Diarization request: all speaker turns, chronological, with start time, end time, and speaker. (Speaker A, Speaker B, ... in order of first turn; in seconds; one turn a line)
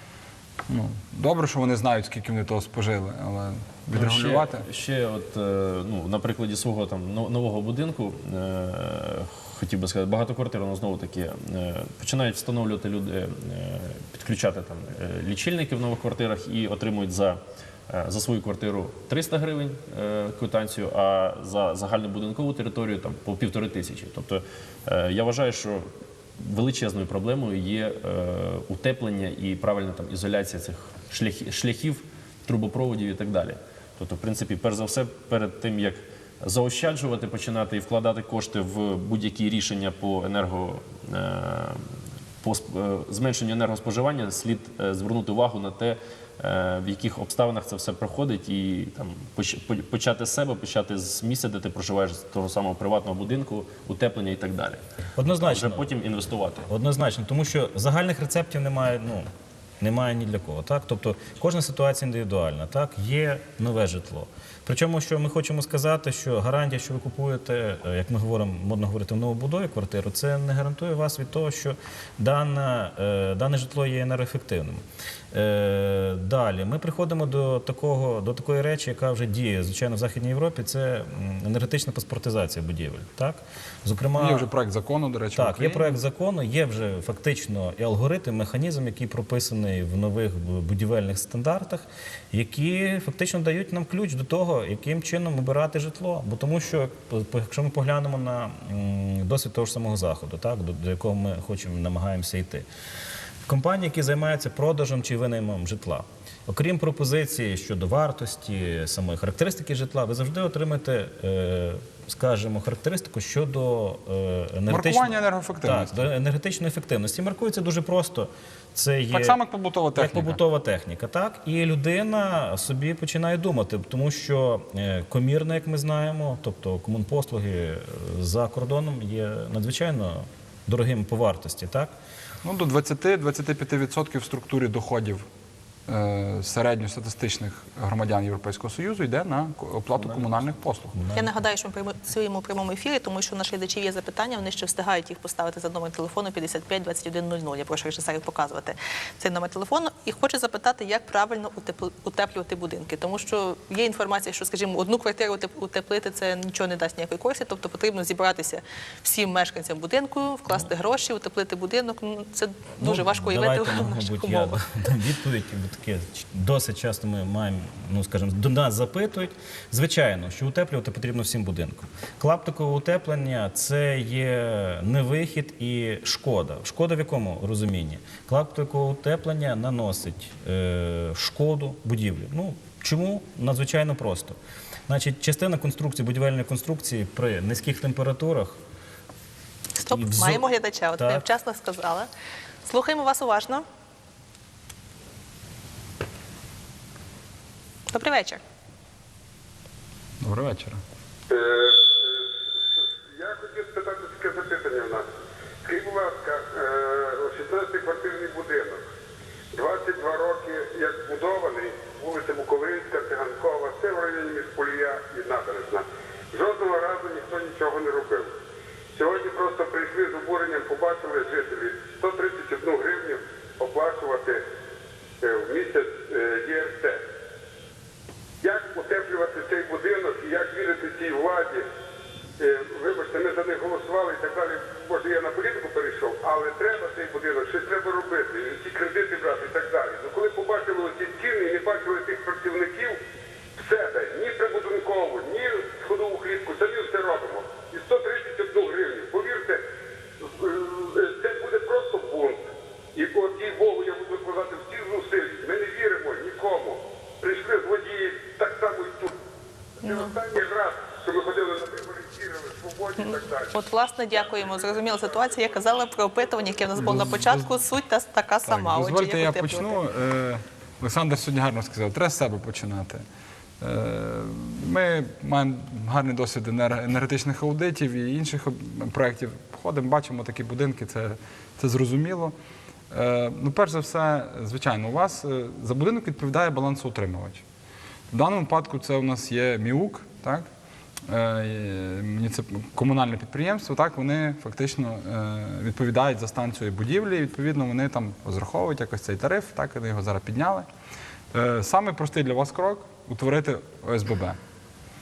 Speaker A: 0.7-4.6
Speaker B: 3.9-25.9
Speaker B: 26.4-41.9
Speaker B: 42.4-54.8
Speaker C: 55.2-55.9
Speaker B: 55.4-56.7
Speaker C: 56.7-59.3
Speaker C: 59.8-84.5
Speaker A: 84.2-85.9
Speaker C: 85.3-102.7
Speaker C: 103.5-119.4
Speaker A: 114.7-116.0
Speaker A: 119.1-120.4
Speaker C: 119.9-131.9
Speaker A: 132.4-135.3
Speaker A: 135.9-141.0
Speaker C: 140.0-140.4
Speaker C: 140.9-141.3
Speaker D: 141.1-164.6
Speaker C: 162.8-184.4
Speaker C: 184.9-188.6
Speaker D: 189.8-192.1
Speaker C: 189.9-191.2
Speaker D: 192.6-193.6
Speaker D: 197.9-198.4
Speaker A: 200.2-200.8
Speaker E: 201.3-202.3
Speaker E: 203.1-205.1
Speaker E: 205.6-208.9
Speaker E: 209.5-218.3
Speaker E: 218.9-224.4
Speaker E: 225.2-227.0
Speaker E: 228.4-231.6
Speaker E: 232.4-243.0
Speaker E: 243.6-249.6
Speaker E: 250.2-252.4
Speaker E: 252.9-259.1
Speaker E: 259.8-263.5
Speaker D: 259.8-260.1
Speaker D: 263.0-269.8
Speaker A: 266.8-267.5
Speaker A: 268.4-273.0
Speaker A: 273.6-282.3
Speaker A: 282.9-287.4
Speaker A: 288.1-290.5
Speaker A: 291.1-300.7
Speaker A: 301.3-304.4